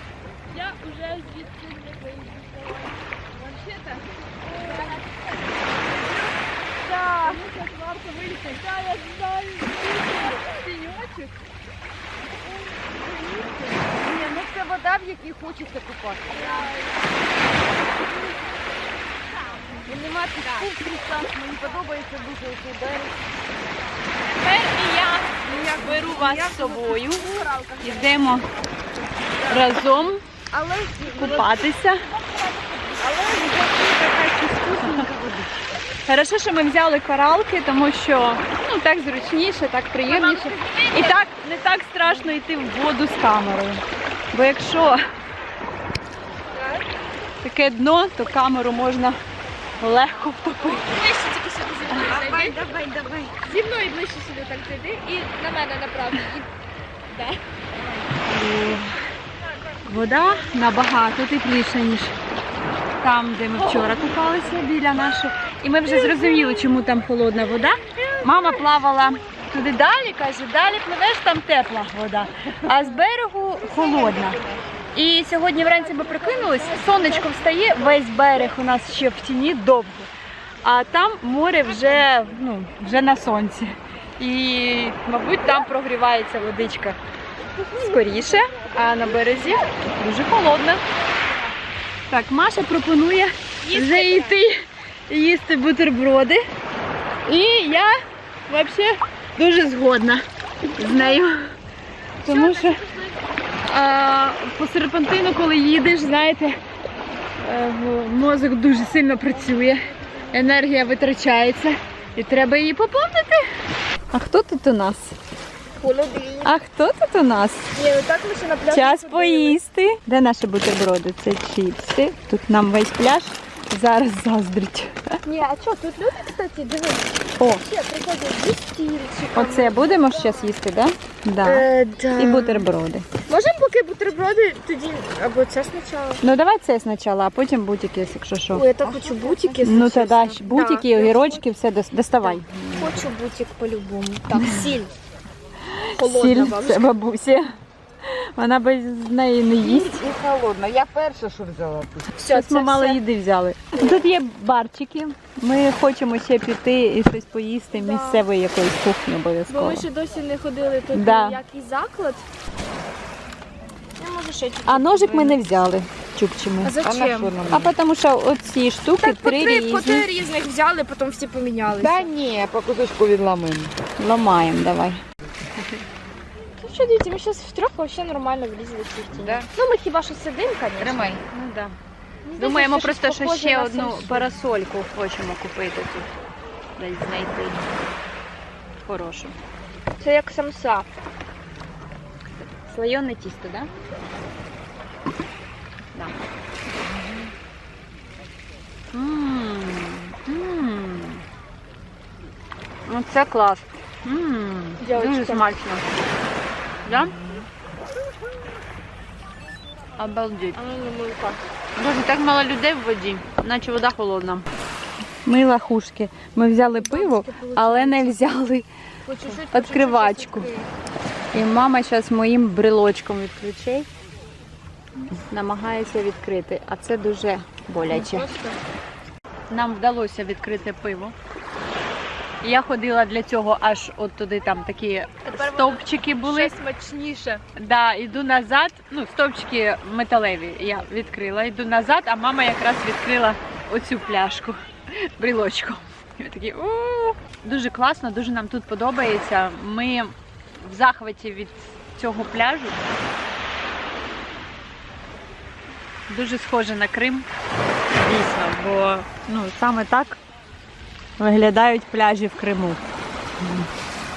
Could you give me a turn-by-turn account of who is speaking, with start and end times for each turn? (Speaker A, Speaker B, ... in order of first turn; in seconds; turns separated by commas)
Speaker A: 0.5-5.0, Speaker B: 4.5-5.3, Speaker B: 5.9-6.2, Speaker A: 6.8-11.2, Speaker B: 6.9-7.4, Speaker B: 10.2-10.5, Speaker A: 13.0-13.5, Speaker B: 13.9-16.8, Speaker A: 16.3-17.0, Speaker B: 19.8-23.3, Speaker A: 24.3-28.4, Speaker C: 24.4-27.3, Speaker B: 25.5-26.3, Speaker B: 27.1-27.7, Speaker C: 27.8-28.5, Speaker C: 29.4-30.2, Speaker B: 30.5-31.6, Speaker A: 31.1-33.2, Speaker C: 31.1-32.0, Speaker B: 33.0-35.7, Speaker C: 34.0-35.1, Speaker C: 36.0-45.0, Speaker A: 40.0-41.2, Speaker A: 46.5-46.9, Speaker C: 47.4-49.2, Speaker C: 49.8-50.9, Speaker A: 50.5-52.6, Speaker C: 51.9-53.3, Speaker A: 53.4-56.5, Speaker A: 57.1-57.4, Speaker C: 58.2-58.9, Speaker C: 59.9-62.1, Speaker C: 63.0-80.1, Speaker A: 63.6-64.4, Speaker A: 65.8-66.8, Speaker A: 67.8-69.1, Speaker B: 73.7-74.6, Speaker A: 75.6-77.8, Speaker C: 80.6-87.0, Speaker A: 87.6-89.8, Speaker C: 87.7-90.8, Speaker A: 91.0-91.5, Speaker C: 92.1-96.4, Speaker A: 93.6-94.4, Speaker C: 97.2-97.9, Speaker C: 98.5-100.2, Speaker C: 100.8-101.5, Speaker A: 100.8-101.2, Speaker C: 102.2-102.8, Speaker A: 102.2-103.2, Speaker C: 103.6-106.6, Speaker C: 107.4-113.4, Speaker A: 109.1-110.5, Speaker C: 114.1-115.2, Speaker A: 115.8-116.5, Speaker C: 116.4-117.7, Speaker A: 117.7-119.5, Speaker C: 118.7-125.2, Speaker A: 125.2-130.5, Speaker C: 129.3-133.1, Speaker A: 131.4-132.7, Speaker A: 133.3-136.2, Speaker C: 136.2-143.1, Speaker A: 138.5-141.4, Speaker A: 142.2-144.9, Speaker C: 144.3-144.6, Speaker C: 145.7-147.5, Speaker A: 145.9-146.9, Speaker C: 148.1-150.1, Speaker B: 149.6-152.1, Speaker A: 152.2-153.0, Speaker C: 152.3-159.8, Speaker A: 157.7-158.2, Speaker A: 159.5-162.2, Speaker C: 160.9-161.4, Speaker A: 164.0-165.4, Speaker C: 164.7-166.7, Speaker A: 166.6-167.3, Speaker B: 166.8-167.7, Speaker C: 167.5-170.1, Speaker A: 169.0-172.1, Speaker B: 171.8-173.7, Speaker C: 174.0-175.0, Speaker A: 176.6-181.2, Speaker C: 179.1-179.5, Speaker C: 180.8-181.8, Speaker A: 182.2-184.3, Speaker C: 182.4-186.1, Speaker C: 186.8-187.7, Speaker C: 188.9-189.3, Speaker A: 190.0-190.9, Speaker C: 192.7-193.7, Speaker C: 195.9-196.2, Speaker C: 198.9-201.2, Speaker C: 202.9-205.8, Speaker A: 204.8-205.6, Speaker C: 206.8-207.2, Speaker B: 207.2-207.4, Speaker C: 210.0-210.6, Speaker A: 210.5-211.4, Speaker C: 211.8-214.4, Speaker C: 215.2-218.7, Speaker A: 216.6-218.2, Speaker A: 219.1-220.7, Speaker C: 219.2-220.5, Speaker C: 221.3-223.9, Speaker C: 225.1-228.3, Speaker A: 227.9-228.6, Speaker C: 229.5-231.1, Speaker C: 232.4-236.6, Speaker A: 235.2-237.4, Speaker C: 237.6-244.6, Speaker C: 245.2-252.8, Speaker C: 256.1-257.2, Speaker C: 258.0-260.2, Speaker C: 261.2-262.8, Speaker C: 263.4-263.6